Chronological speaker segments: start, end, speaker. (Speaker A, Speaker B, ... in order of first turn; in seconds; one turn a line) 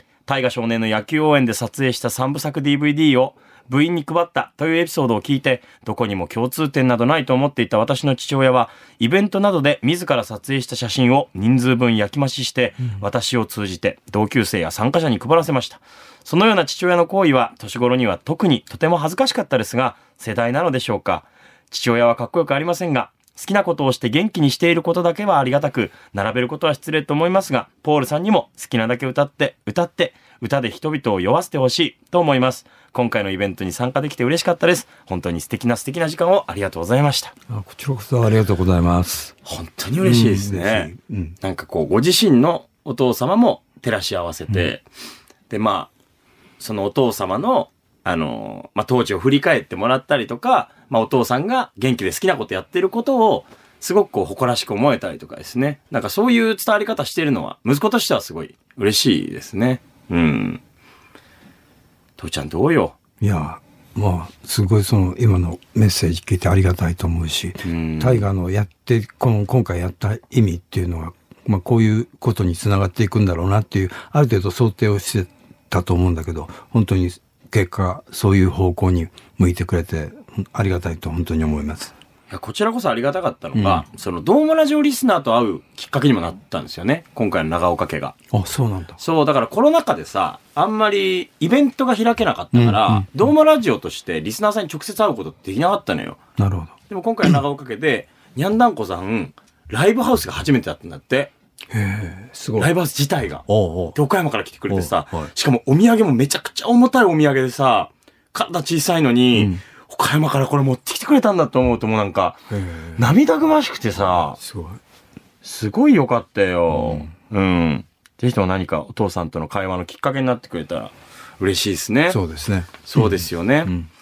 Speaker A: 0.2-37.3
Speaker B: 37.5-39.4
Speaker A: 39.4-44.8
Speaker B: 40.0-41.4
Speaker A: 45.5-45.9
Speaker A: 46.6-60.6
Speaker A: 62.2-62.9
Speaker B: 63.2-81.9
Speaker A: 67.6-68.3
Speaker A: 82.3-88.1
Speaker B: 83.5-83.8
Speaker B: 88.3-89.0
Speaker A: 89.0-96.2
Speaker B: 92.5-93.1
Speaker B: 96.4-96.7
Speaker A: 96.9-101.3
Speaker B: 101.7-102.7
Speaker A: 102.6-112.4
Speaker B: 103.5-104.0
Speaker B: 104.7-105.3
Speaker B: 109.3-109.6
Speaker B: 112.5-113.1
Speaker A: 113.0-114.4
Speaker B: 114.3-114.8
Speaker A: 115.4-122.2
Speaker B: 116.7-117.1
Speaker B: 122.1-123.9
Speaker A: 122.8-123.7